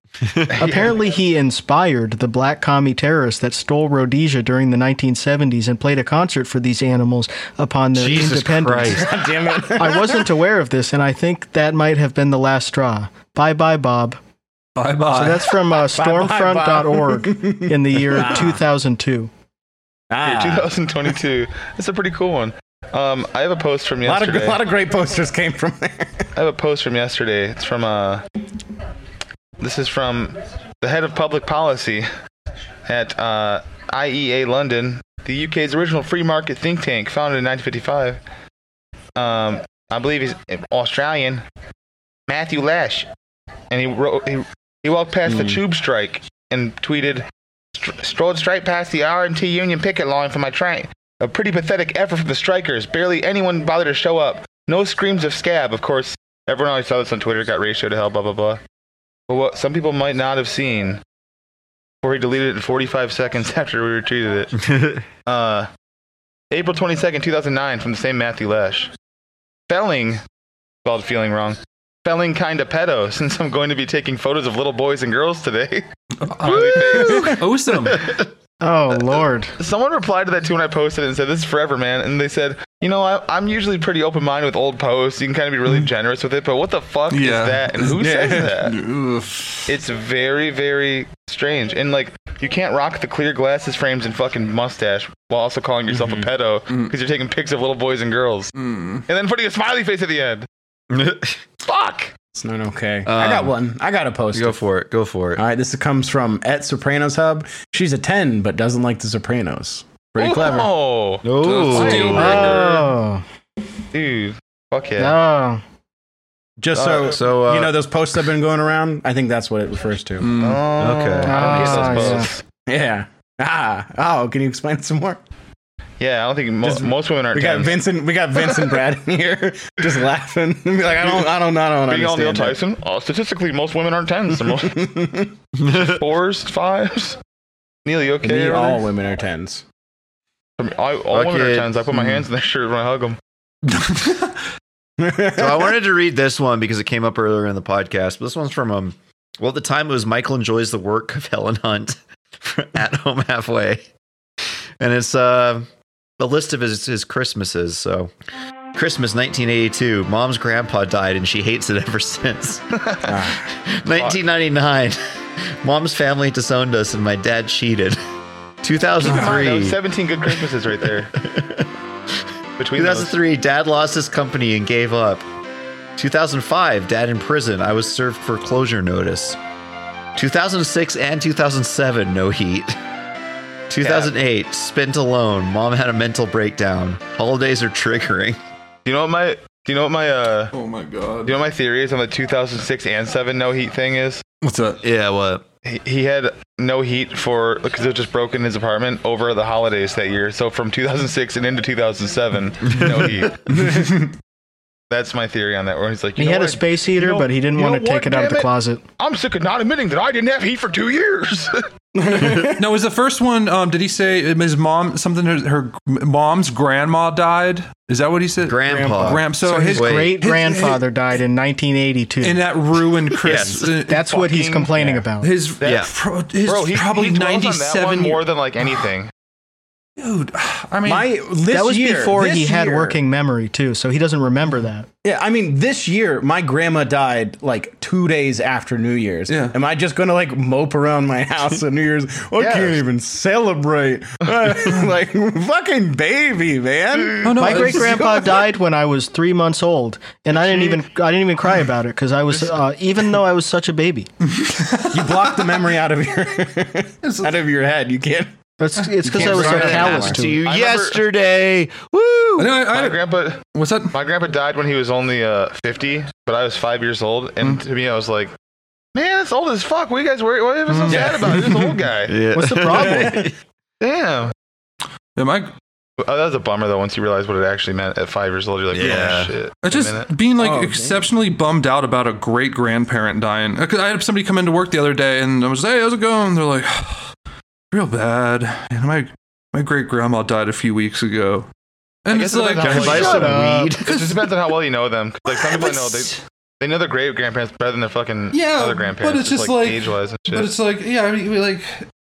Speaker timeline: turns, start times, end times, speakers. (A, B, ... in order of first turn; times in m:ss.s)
0:00.5-0:00.9 A
0:00.6-0:09.0 B
0:07.9-0:09.2 C
0:09.0-0:10.3 D
0:09.8-0:14.2 B
0:14.8-0:15.5 E
0:15.1-0:19.3 B
0:15.8-0:18.6 D
0:20.1-0:20.7 D
0:20.2-0:24.6 A
0:24.0-0:26.3 D
0:26.4-0:28.2 A
0:29.6-0:32.1 A
0:32.9-0:38.2 A
0:39.2-0:41.4 A
0:42.3-0:43.1 A
0:43.7-0:58.6 A
0:45.2-0:45.6 D
0:59.3-1:01.0 A
1:02.0-1:04.5 A
1:04.6-1:05.0 C
1:05.2-1:05.7 A
1:06.5-1:08.9 A
1:09.7-1:10.2 A
1:10.8-1:15.8 A
1:16.2-1:18.1 E
1:16.4-1:17.4 A
1:17.0-1:17.3 D
1:18.6-1:19.5 B
1:19.6-1:28.7 A
1:27.1-1:29.5 E
1:28.0-1:28.6 D
1:29.7-1:38.5 A
1:35.9-1:36.3 D
1:38.5-1:39.0 E
1:39.1-1:40.4 A
1:40.9-1:41.4 C
1:41.6-1:42.1 A
1:42.3-1:44.6 D
1:43.0-1:43.5 C
1:44.3-1:45.4 C
1:45.4-1:50.7 D
1:50.2-1:52.8 A
1:51.2-1:52.6 C
1:51.4-1:52.7 E
1:52.1-1:53.2 B
1:53.9-1:55.1 A
1:55.0-1:55.6 B
1:56.6-2:00.3 D
1:56.8-1:57.7 C
2:00.2-2:00.6 E
2:00.4-2:02.4 A
2:00.8-2:02.2 C
2:01.2-2:02.3 B
2:02.7-2:05.2 D
2:06.0-2:07.8 A
2:06.6-2:12.6 D
2:11.9-2:14.8 A
2:14.4-2:15.3 D
2:15.6-2:16.0 C
2:15.7-2:17.2 A
2:17.8-2:18.8 A
2:18.2-2:19.6 D
2:20.6-2:23.2 A
2:21.1-2:21.8 C
2:23.9-2:24.2 E
2:25.0-2:25.7 D
2:25.3-2:33.8 C
2:34.8-2:35.7 C
2:36.2-2:38.1 C
2:38.7-2:42.6 C
2:42.8-2:43.1 A
2:43.0-2:43.4 D
2:43.7-2:45.0 C
2:45.6-2:48.0 C
2:48.6-2:49.8 C
2:49.0-2:51.1 A
2:51.2-2:51.7 C
2:52.6-2:53.1 A
2:52.7-2:55.2 C
2:56.0-2:59.4 C
3:00.2-3:02.8 C
3:03.7-3:08.4 C
3:03.8-3:04.1 A
3:08.8-3:10.5 A
3:10.5-3:11.4 E
3:11.2-3:14.2 A
3:14.4-3:14.8 E
3:14.8-3:15.4 C
3:15.6-3:23.4 A
3:22.7-3:23.1 C
3:23.5-3:24.0 D
3:24.9-3:31.6 A
3:26.2-3:28.8 B
3:32.1-3:32.4 D
3:32.4-3:40.8 E
3:38.4-3:40.2 C
3:38.8-3:42.4 B
3:42.2-3:44.4 E
3:43.2-3:43.7 C
3:43.9-3:45.3 B
3:44.1-3:44.7 A
3:45.2-3:48.8 E
3:45.6-3:45.9 A
3:45.6-3:45.9 C
3:46.4-3:49.1 A
3:50.0-3:51.1 E
3:50.8-3:53.0 D
3:51.5-3:54.9 B
3:55.0-4:07.4 D
3:59.3-3:59.5 E
4:02.4-4:02.8 A
4:07.2-4:08.4 E
4:07.4-4:14.1 B
4:14.3-4:15.7 E
4:14.9-4:18.3 D
4:17.0-4:17.4 E
4:18.6-4:20.4 B
4:19.0-4:20.1 D
4:19.1-4:22.6 C
4:20.4-4:21.0 A
4:22.4-4:23.0 E
4:22.7-4:28.3 A
4:23.5-4:23.9 E
4:28.9-4:32.2 A
4:30.7-4:31.7 E
4:30.9-4:31.4 D
4:32.1-4:33.3 C
4:32.3-4:33.2 B
4:32.8-4:33.3 D
4:33.8-4:34.3 A
4:35.2-4:35.5 E
4:36.0-4:40.1 A
4:38.7-4:39.3 C
4:38.8-4:39.1 E
4:39.6-4:47.1 E
4:40.3-4:41.0 D
4:47.7-4:51.5 E
4:52.0-4:54.3 E
4:52.1-5:00.5 A
4:52.6-4:54.0 C
4:53.0-4:53.7 B
4:55.3-4:56.2 E
4:58.3-5:01.8 E